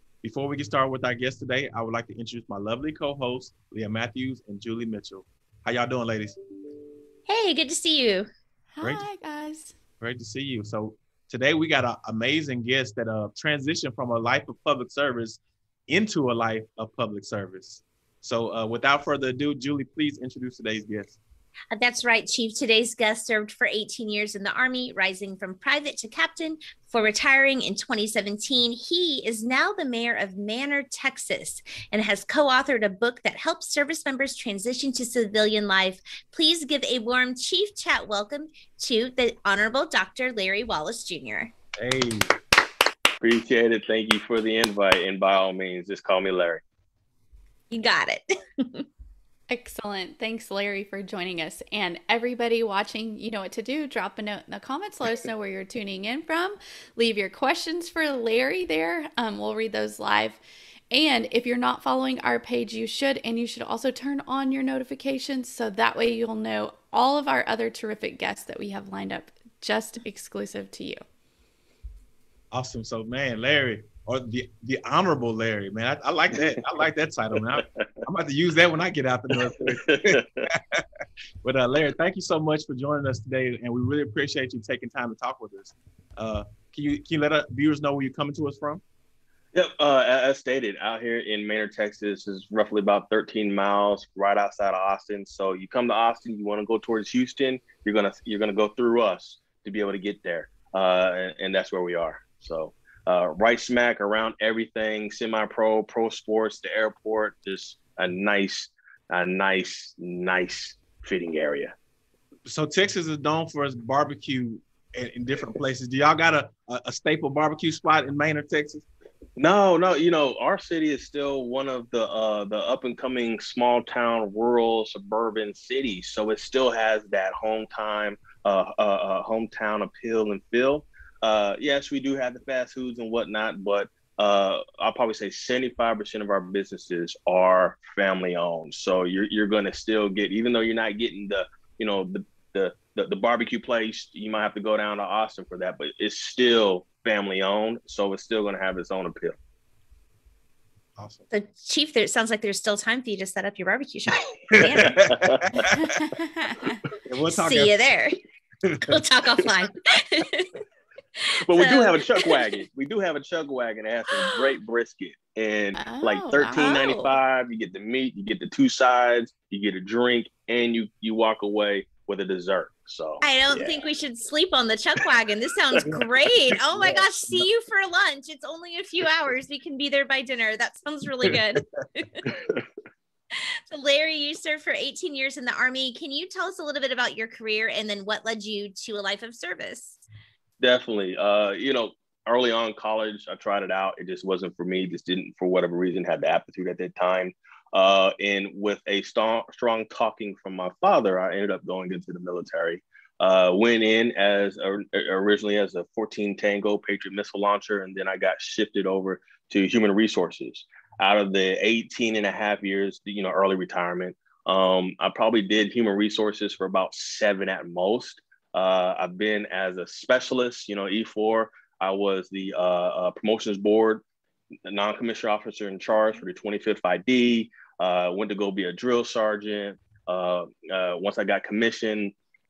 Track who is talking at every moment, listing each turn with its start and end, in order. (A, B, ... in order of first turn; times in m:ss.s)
0:00.2-0:06.4 A
0:07.3-0:08.3 B
0:08.7-0:09.8 C
0:10.0-0:21.2 A
0:21.7-0:41.5 B
0:41.8-0:42.4 A
0:43.2-0:46.6 D
0:47.7-0:48.9 B
0:49.5-1:00.4 C
1:00.9-1:11.0 C
1:12.5-1:20.8 A
1:19.4-1:20.5 D
1:21.4-1:28.8 A
1:29.5-1:51.7 D
1:52.5-1:58.8 A
1:59.4-2:29.4 D
2:31.0-2:31.3 A
2:31.3-2:35.1 B
2:34.5-2:36.0 A
2:34.9-2:35.6 D
2:35.8-2:36.8 C
2:37.1-2:37.8 A
2:37.3-2:38.2 B
2:38.7-2:39.0 A
2:38.8-2:40.6 B
2:41.2-2:42.5 B
2:41.5-2:53.8 D
2:44.2-2:44.4 B
2:45.8-2:46.7 C
2:46.6-2:47.2 B
2:53.2-3:02.3 B
2:56.7-2:57.0 D
3:02.3-3:02.6 D
3:03.3-3:10.0 B
3:10.6-3:44.0 D
3:44.6-3:52.1 D